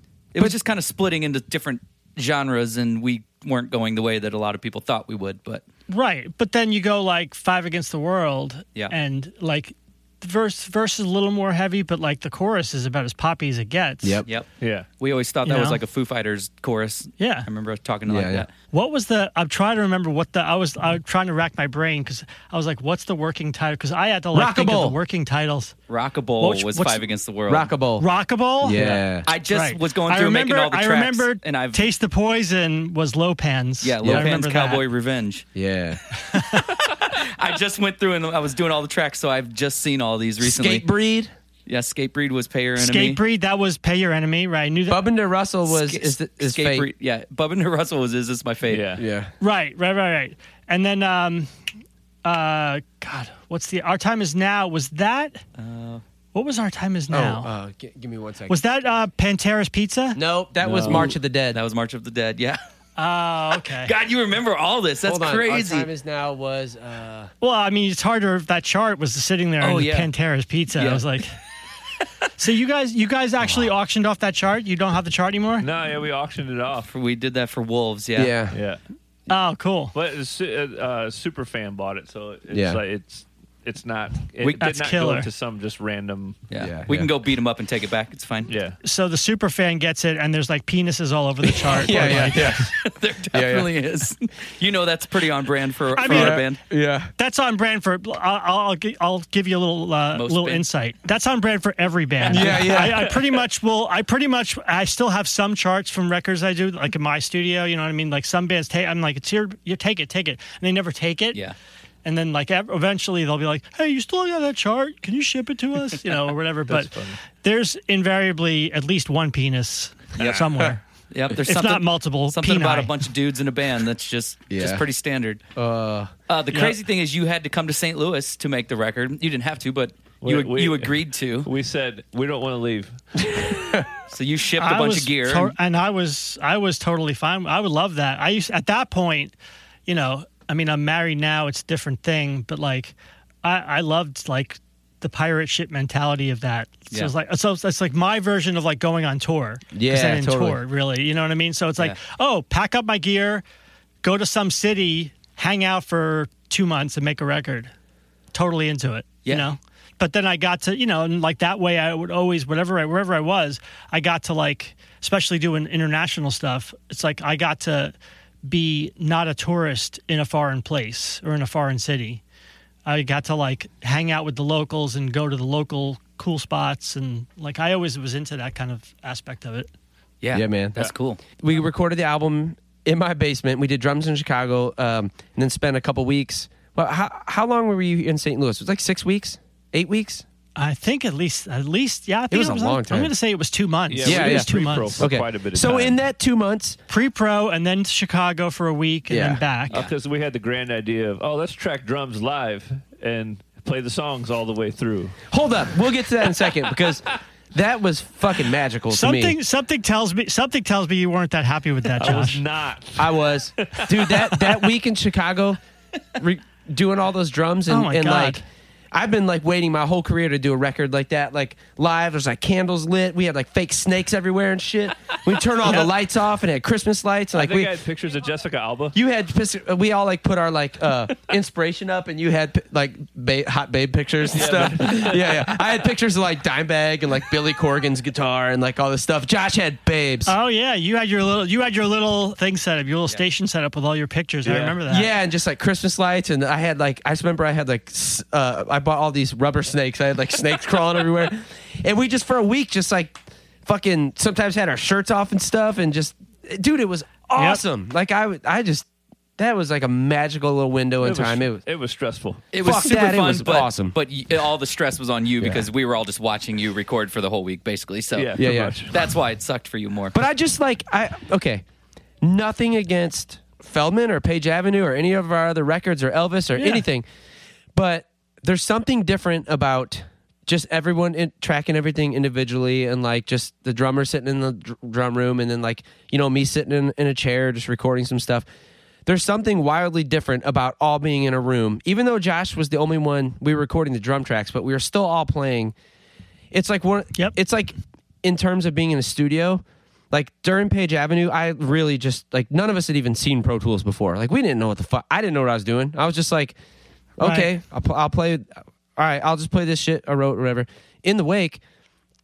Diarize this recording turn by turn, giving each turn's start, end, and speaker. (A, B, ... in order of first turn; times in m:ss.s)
0:00.3-0:05.6 A
0:05.9-0:14.2 B
0:14.6-0:14.9 C
0:15.0-0:18.5 A
0:15.4-0:15.8 B
0:17.2-0:17.5 B
0:18.1-0:18.4 D
0:18.7-0:25.7 B
0:24.3-0:25.0 D
0:25.9-0:27.7 A
0:26.4-0:27.1 B
0:27.5-0:28.1 D
0:28.0-0:34.8 B
0:28.6-0:29.3 D
0:29.2-0:31.9 A
0:33.8-0:35.4 A
0:34.0-0:34.3 D
0:35.5-0:36.0 D
0:36.3-0:36.7 B
0:36.3-0:40.8 A
0:40.4-0:41.3 D
0:41.6-0:43.2 A
0:42.8-0:45.0 B
0:44.9-0:46.9 D
0:45.7-0:48.9 A
0:48.7-0:49.0 C
0:49.0-0:49.3 D
0:49.4-0:51.5 B
0:52.2-0:55.4 B
0:55.6-0:56.0 A
0:56.3-0:57.5 B
0:57.1-0:58.6 D
0:58.5-1:00.2 B
1:00.1-1:01.6 D
1:00.6-1:01.1 C
1:00.9-1:02.6 A
1:03.0-1:03.9 B
1:03.5-1:05.9 A
1:05.0-1:07.3 D
1:07.4-1:11.3 B
1:09.6-1:10.1 A
1:10.7-1:11.1 A
1:12.4-1:15.7 B
1:15.6-1:16.9 C
1:16.9-1:18.3 A
1:18.2-1:18.5 D
1:18.5-1:18.8 C
1:19.3-1:19.9 B
1:19.9-1:26.4 C
1:22.5-1:22.8 D
1:24.4-1:24.7 A
1:24.6-1:25.3 B
1:26.5-1:28.5 A
1:26.6-1:27.1 D
1:28.5-1:28.8 C
1:28.8-1:32.7 B
1:31.7-1:36.6 A
1:31.7-1:32.7 D
1:33.3-1:33.7 D
1:35.9-1:36.4 B
1:36.0-1:37.1 D
1:37.2-1:51.4 B
1:40.1-1:40.6 A
1:42.3-1:43.2 D
1:52.0-2:00.8 B
1:56.7-1:57.1 C
2:00.2-2:00.5 A
2:01.1-2:05.4 A
2:01.4-2:02.9 B
2:04.5-2:04.8 D
2:05.6-2:06.1 D
2:06.3-2:11.5 A
2:10.2-2:13.0 C
2:13.2-2:13.9 D
2:14.1-2:15.5 A
2:14.6-2:19.3 B
2:19.8-2:33.4 B
2:29.7-2:30.6 D
2:34.0-2:37.7 B
2:38.3-2:47.9 B
2:48.4-2:52.2 B
2:52.8-2:59.7 B
3:00.2-3:01.2 A
3:00.3-3:00.8 D
3:01.4-3:10.2 D
3:10.6-3:15.0 B
3:12.3-3:13.1 D
3:13.9-3:16.0 C
3:14.0-3:16.8 D
3:16.9-3:19.8 B
3:19.1-3:19.4 D
3:19.7-3:25.3 C
3:25.3-3:29.3 D
3:28.9-3:32.4 B
3:32.0-3:34.7 C
3:33.0-3:35.6 D
3:36.2-3:38.4 D
3:37.7-3:38.4 B
3:38.9-3:47.7 D
3:45.6-3:45.9 B
3:47.3-3:48.9 C
3:48.9-4:00.3 D
3:54.3-3:55.4 C
4:00.2-4:05.1 B
4:04.4-4:04.8 C
4:04.9-4:18.8 D
4:17.4-4:17.6 B
4:19.4-4:21.6 D
4:21.0-4:22.4 C
4:22.5-4:30.2 A
4:22.6-4:23.9 D
4:28.1-4:29.0 C
4:28.4-4:28.8 D
4:30.1-4:31.6 D
4:32.2-4:37.0 D
4:36.6-4:36.8 B
4:37.7-4:48.4 D
4:49.0-4:55.7 D
4:56.5-5:06.5 D
5:07.2-5:11.6 D
5:07.2-5:07.5 B